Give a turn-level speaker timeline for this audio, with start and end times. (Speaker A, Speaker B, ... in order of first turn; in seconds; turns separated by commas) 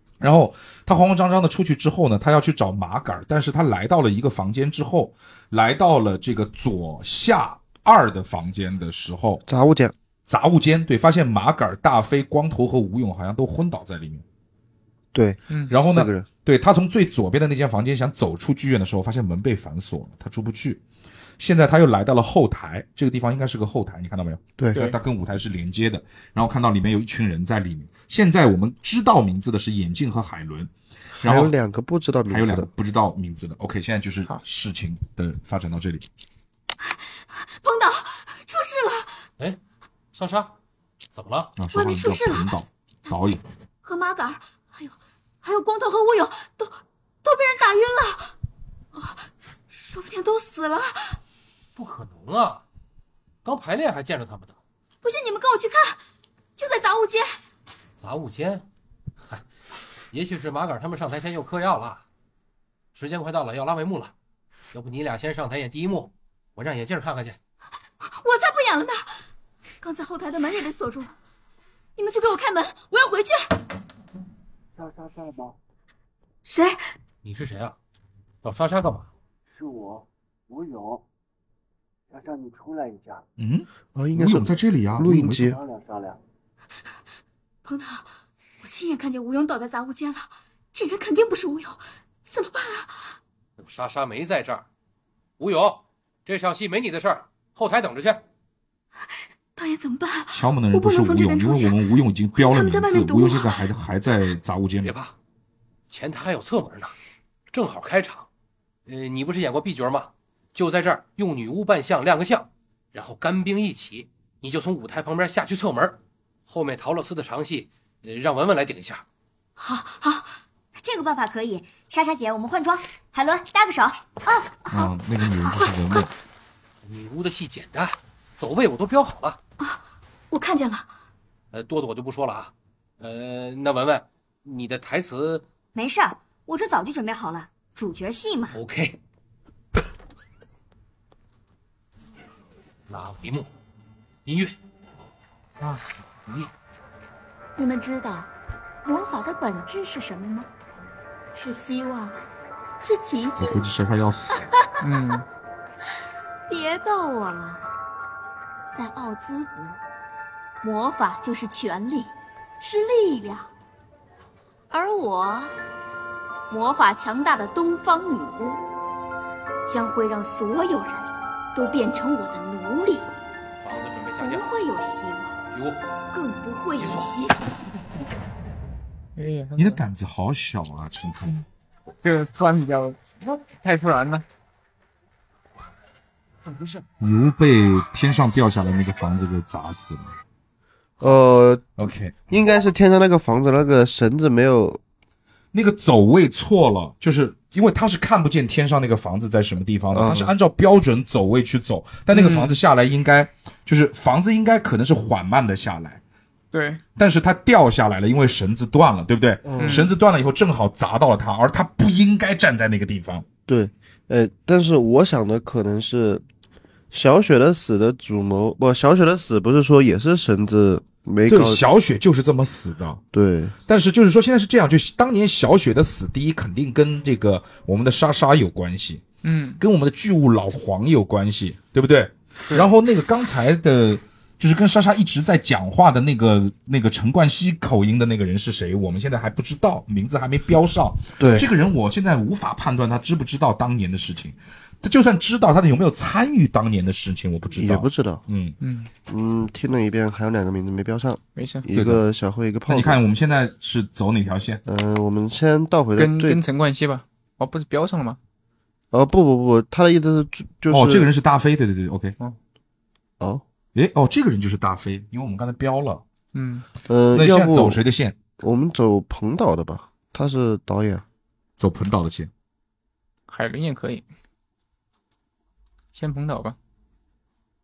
Speaker A: 0.2-9.4, Speaker B: 9.5-9.9, Speaker A: 10.3-14.2, Speaker B: 15.1-16.3, Speaker C: 15.5-15.8, Speaker A: 15.7-20.8, Speaker A: 21.4-31.5, Speaker B: 31.2-32.7, Speaker A: 32.3-36.1, Speaker D: 36.9-39.3, Speaker E: 40.1-40.5, Speaker E: 41.1-41.5, Speaker A: 41.6-43.4, Speaker D: 41.7-42.5, Speaker D: 43.1-48.3, Speaker D: 49.0-51.2, Speaker E: 51.8-52.6, Speaker E: 53.5-54.6, Speaker D: 55.0-56.0, Speaker D: 56.6-57.4, Speaker E: 58.0-58.6, Speaker E: 60.1-62.0, Speaker E: 63.0-64.1, Speaker E: 64.7-67.4, Speaker D: 68.1-69.2, Speaker D: 69.8-71.1, Speaker D: 72.0-73.5, Speaker F: 74.8-75.5, Speaker D: 76.5-76.8, Speaker E: 77.2-77.8, Speaker E: 78.4-79.1, Speaker F: 79.5-81.0, Speaker F: 82.1-83.2, Speaker A: 83.4-85.6, Speaker B: 84.0-85.6, Speaker F: 85.5-86.2, Speaker D: 87.6-88.1, Speaker D: 88.6-93.2, Speaker E: 93.6-94.7, Speaker E: 95.4-98.2, Speaker D: 99.5-101.8, Speaker A: 100.3-105.0, Speaker D: 102.3-103.6, Speaker E: 104.8-105.1, Speaker E: 105.9-106.9, Speaker E: 107.5-108.3, Speaker E: 108.9-119.0, Speaker D: 119.6-120.3, Speaker G: 120.8-124.1, Speaker A: 124.7-126.1, Speaker E: 126.8-129.4, Speaker D: 129.6-130.9, Speaker E: 131.5-135.5, Speaker G: 135.7-138.6, Speaker E: 138.5-139.0, Speaker E: 142.9-143.5, Speaker E: 144.3-144.6, Speaker D: 147.6-148.3, Speaker G: 149.1-150.2, Speaker D: 151.3-152.2, Speaker D: 152.8-153.6, Speaker A: 153.4-154.4, Speaker C: 154.8-155.2, Speaker D: 156.5-157.6, Speaker D: 158.7-159.8, Speaker D: 160.6-163.5, Speaker D: 164.7-165.6, Speaker D: 166.5-168.6, Speaker D: 169.7-173.1, Speaker E: 173.6-174.5, Speaker D: 174.2-175.4, Speaker E: 175.5-175.8, Speaker D: 176.1-177.4, Speaker C: 179.2-179.8, Speaker A: 179.6-181.4, Speaker C: 182.0-184.2, Speaker A: 187.0-190.1, Speaker B: 191.0-191.8, Speaker A: 191.8-192.3, Speaker B: 192.3-194.8, Speaker A: 195.5-206.0, Speaker B: 199.9-200.3, Speaker C: 202.1-202.6, Speaker C: 206.5-206.8, Speaker A: 207.0-213.3, Speaker B: 209.4-209.9, Speaker C: 209.6-209.9, Speaker B: 213.5-216.2, Speaker B: 216.9-221.6, Speaker A: 221.3-223.0, Speaker B: 223.1-223.6, Speaker A: 223.7-229.0, Speaker C: 229.2-229.6, Speaker A: 229.6-248.6, Speaker B: 241.2-241.5, Speaker B: 247.5-248.2, Speaker C: 248.6-248.9, Speaker B: 249.1-253.0, Speaker C: 251.4-251.7, Speaker A: 251.7-252.0, Speaker A: 252.7-254.6, Speaker B: 254.7-256.4, Speaker C: 256.0-258.2, Speaker B: 258.9-261.1, Speaker A: 260.7-262.1, Speaker A: 263.8-266.0, Speaker C: 266.3-266.7, Speaker B: 266.9-267.8, Speaker A: 267.1-268.2, Speaker B: 268.4-271.0, Speaker A: 271.6-272.3, Speaker C: 273.3-274.1, Speaker C: 275.9-276.6